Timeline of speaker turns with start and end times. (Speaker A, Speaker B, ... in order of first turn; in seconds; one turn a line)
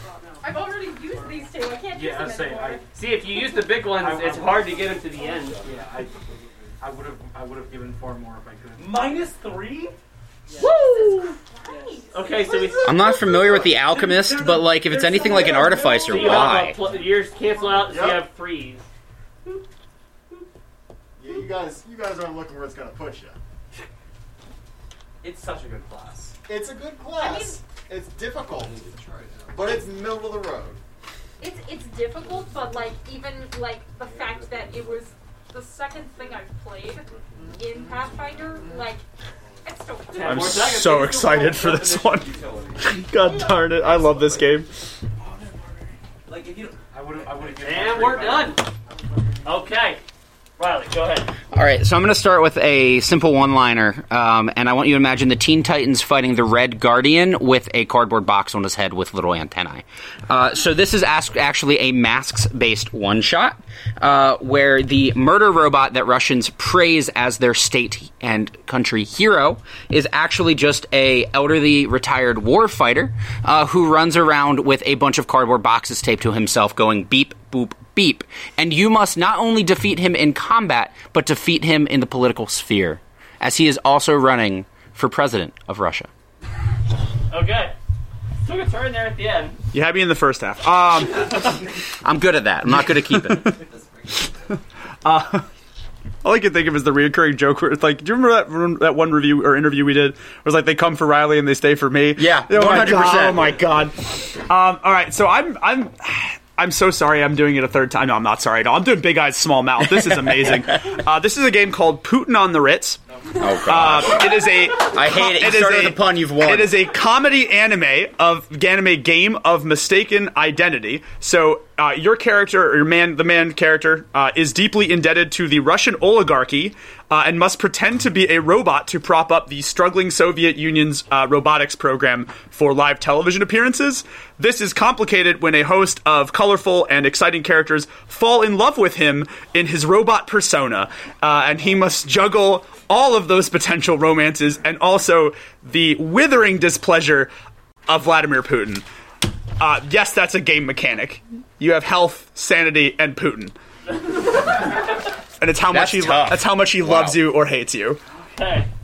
Speaker A: 0.4-2.8
Speaker B: 1.9-2.8
Speaker C: 2.9-5.6
Speaker B: 3.9-4.9
Speaker B: 5.5-6.3
Speaker B: 6.8-9.1
Speaker D: 8.8-9.9
Speaker A: 10.6-13.0
Speaker C: 10.6-11.0
Speaker D: 11.7-12.0
Speaker C: 12.1-12.8
Speaker E: 12.8-16.8
Speaker D: 13.0-17.1
Speaker A: 15.3-16.1
Speaker C: 16.1-18.8
Speaker A: 17.5-18.0
Speaker F: 17.9-18.2
Speaker F: 21.2-23.4
Speaker D: 25.2-26.4
Speaker F: 26.4-28.9
Speaker A: 27.1-27.6
Speaker F: 29.5-30.8
Speaker A: 31.4-39.0
Speaker D: 37.4-38.0
Speaker A: 39.6-40.6
Speaker C: 40.1-41.5
Speaker G: 40.2-44.7
Speaker D: 40.9-44.6
Speaker D: 45.2-45.6
Speaker D: 46.2-47.4
Speaker B: 46.9-48.6
Speaker C: 47.6-48.6
Speaker D: 48.0-48.5
Speaker C: 49.4-50.0
Speaker C: 50.6-51.3
Speaker E: 51.5-86.1
Speaker C: 87.3-87.7
Speaker C: 88.4-89.6
Speaker G: 89.7-91.6
Speaker E: 92.0-93.5
Speaker G: 92.9-93.6
Speaker G: 95.0-95.4
Speaker G: 96.2-113.0
Speaker E: 102.2-103.6
Speaker E: 109.8-110.9
Speaker E: 113.4-116.8
Speaker G: 113.6-147.3
Speaker G: 147.9-148.8
Speaker G: 149.6-153.6
Speaker G: 155.4-158.0
Speaker E: 155.7-157.2
Speaker C: 158.2-158.7